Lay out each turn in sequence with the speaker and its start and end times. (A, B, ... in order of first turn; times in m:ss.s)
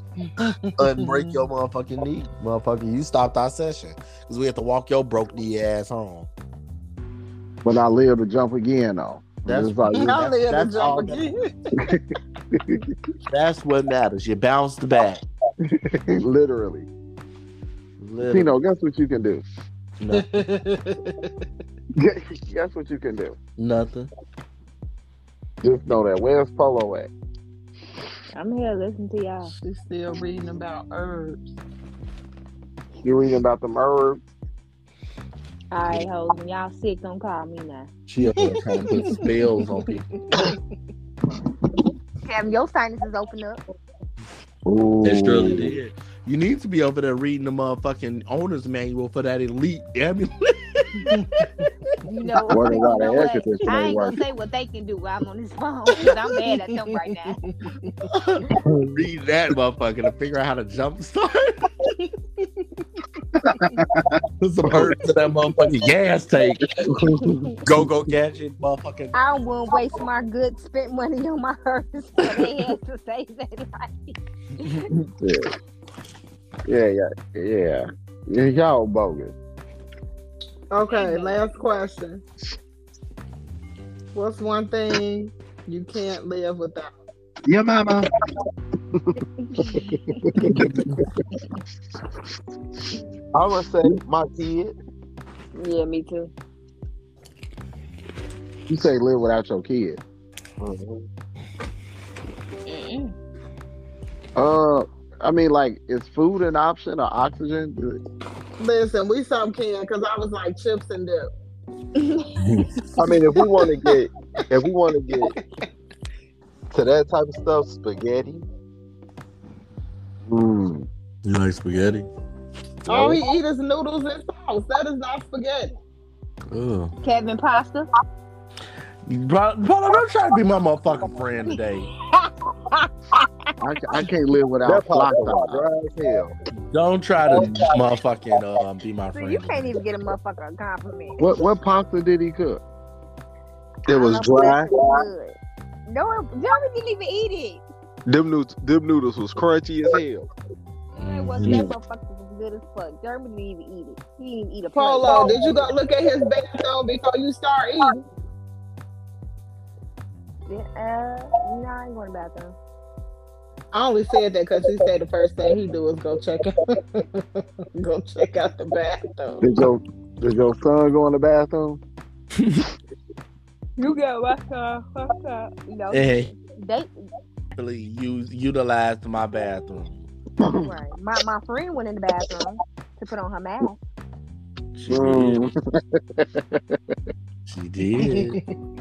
0:00.2-0:01.3 A
0:00.8-0:06.3 B
0:07.6-0:10.2 C
0:09.4-0:11.4 B
0:10.0-0:11.5 A
0:12.5-0:12.8 C
0:13.3-0:15.2 B
0:15.6-0:16.9 C
0:18.0-0:18.6 B
0:18.3-0:19.4 C
0:20.0-0:20.9 B
0:22.0-0:23.4 C
0:23.6-0:24.1 B
0:25.6-0:27.1 C
0:28.3-0:29.5 D
0:29.6-0:31.6 A
0:33.0-0:34.2 C
0:35.7-0:37.9 D
0:38.1-0:40.1 B
0:42.2-0:43.6 D
0:44.7-0:45.8 C
0:45.0-0:51.2 B
0:51.0-0:51.3 A
0:52.0-0:57.4 D
0:52.5-0:54.2 C
0:52.5-0:53.5 E
0:56.0-0:58.0 A
0:58.1-1:01.7 B
1:01.9-1:02.7 A
1:04.4-1:06.9 B
1:04.6-1:04.9 C
1:04.6-1:04.9 E
1:06.9-1:07.5 C
1:07.6-1:09.2 B
1:09.1-1:14.8 D
1:15.2-1:15.5 C
1:16.7-1:19.3 C
1:20.7-1:22.2 A
1:20.9-1:21.5 D
1:24.1-1:27.0 A
1:27.5-1:28.1 E
1:29.5-1:30.0 D
1:29.7-1:30.9 C
1:33.3-1:34.7 E
1:35.6-1:36.3 D
1:38.7-1:40.0 C
1:40.6-1:41.1 E
1:42.7-1:43.1 D
1:44.4-1:48.0 C
1:48.6-1:51.3 A
1:52.0-1:52.4 D
1:52.4-1:52.8 B
1:53.0-1:55.4 E
1:56.7-1:58.4 E
2:00.3-2:00.9 C
2:01.2-2:02.1 B
2:02.9-2:05.7 A
2:06.5-2:06.9 B
2:07.0-2:07.9 D
2:09.1-2:11.9 B
2:13.6-2:15.6 C
2:14.7-2:16.3 E
2:16.7-2:19.8 B
2:17.2-2:17.9 E
2:19.1-2:21.4 D
2:21.2-2:22.6 C
2:23.9-2:25.0 E
2:23.9-2:25.4 D
2:25.9-2:27.6 D
2:28.1-2:30.3 E
2:31.0-2:31.7 B
2:31.0-2:35.7 D
2:34.7-2:38.0 A
2:40.5-2:42.6 D
2:43.7-2:49.5 A
2:49.4-2:51.8 C
2:52.4-2:52.6 B
2:53.8-2:56.9 D
2:55.9-2:56.3 B
2:57.6-3:00.1 B
3:00.4-3:00.7 C
3:00.6-3:03.8 D
3:04.8-3:05.5 B
3:04.9-3:06.8 C
3:07.5-3:08.4 B
3:08.0-3:08.3 A